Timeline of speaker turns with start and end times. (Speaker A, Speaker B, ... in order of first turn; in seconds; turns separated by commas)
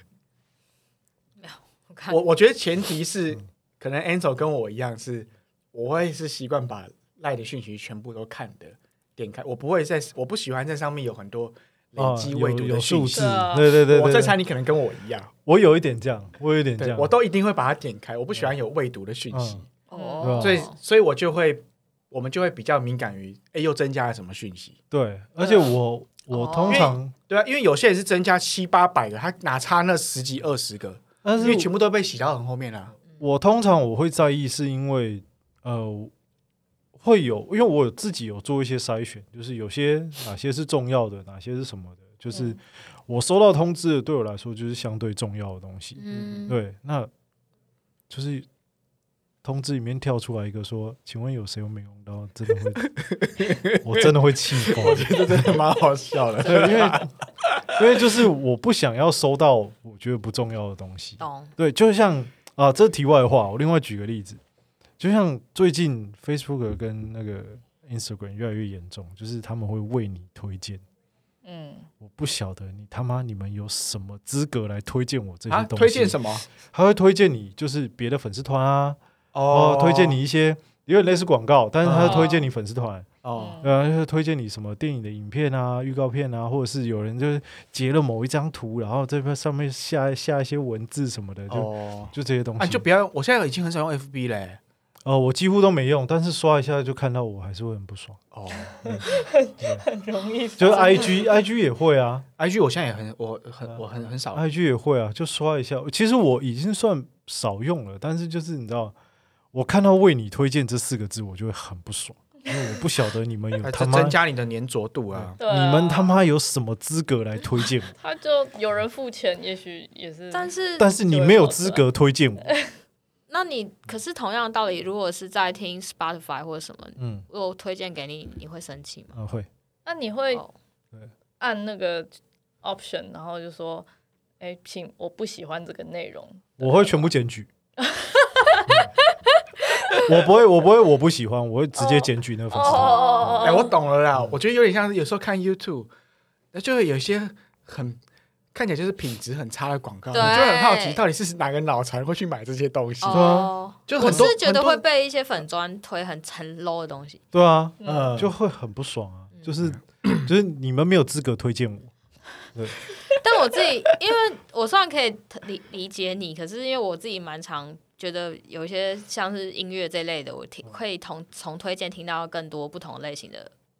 Speaker A: 1.4-2.2, Speaker B: 2.1-15.3, Speaker C: 12.0-14.4, Speaker D: 13.1-13.7, Speaker C: 15.4-17.1, Speaker B: 16.8-19.7, Speaker C: 19.3-19.6, Speaker A: 19.9-20.7, Speaker D: 19.9-20.4, Speaker C: 20.2-20.6, Speaker B: 20.4-24.8, Speaker C: 24.9-27.1, Speaker A: 26.3-26.9, Speaker B: 26.6-33.0, Speaker C: 31.2-31.7, Speaker C: 33.2-36.1, Speaker C: 37.0-47.1, Speaker A: 46.0-46.5, Speaker B: 46.1-46.4, Speaker C: 48.1-48.5, Speaker C: 49.4-52.9, Speaker B: 52.8-57.6, Speaker C: 53.8-55.5, Speaker C: 56.4-57.1, Speaker C: 57.7-64.4, Speaker A: 61.2-61.5, Speaker C: 65.0-70.8, Speaker D: 71.4-71.9, Speaker C: 72.0-83.1, Speaker B: 75.5-76.5, Speaker B: 79.3-80.2, Speaker B: 81.8-82.3, Speaker D: 82.1-82.4, Speaker B: 83.2-83.6, Speaker D: 83.3-83.7, Speaker C: 83.6-92.8, Speaker B: 91.5-94.6, Speaker C: 95.0-98.2, Speaker B: 98.3-99.0, Speaker D: 98.7-101.4, Speaker C: 100.6-102.2, Speaker B: 102.4-104.4, Speaker C: 104.3-108.9, Speaker C: 109.5-114.2, Speaker B: 113.6-115.4, Speaker C: 115.1-117.9, Speaker D: 115.4-116.2, Speaker D: 118.0-121.8, Speaker A: 120.3-120.9, Speaker C: 120.8-122.5, Speaker D: 122.4-122.7, Speaker A: 123.3-129.2, Speaker C: 127.0-127.2, Speaker C: 129.1-129.5, Speaker D: 129.8-130.4, Speaker D: 131.4-133.9, Speaker D: 134.4-137.1, Speaker C: 136.6-137.5, Speaker D: 137.8-138.9, Speaker C: 138.7-138.9, Speaker D: 139.7-140.0, Speaker C: 140.0-143.4, Speaker D: 141.8-143.7, Speaker A: 142.6-143.6, Speaker B: 143.4-145.9, Speaker B: 146.5-148.0, Speaker B: 148.5-154.8, Speaker A: 150.1-151.0, Speaker A: 153.0-157.2, Speaker C: 153.1-154.3, Speaker C: 157.3-161.9, Speaker D: 157.8-158.1, Speaker B: 157.8-158.3, Speaker A: 163.1-173.5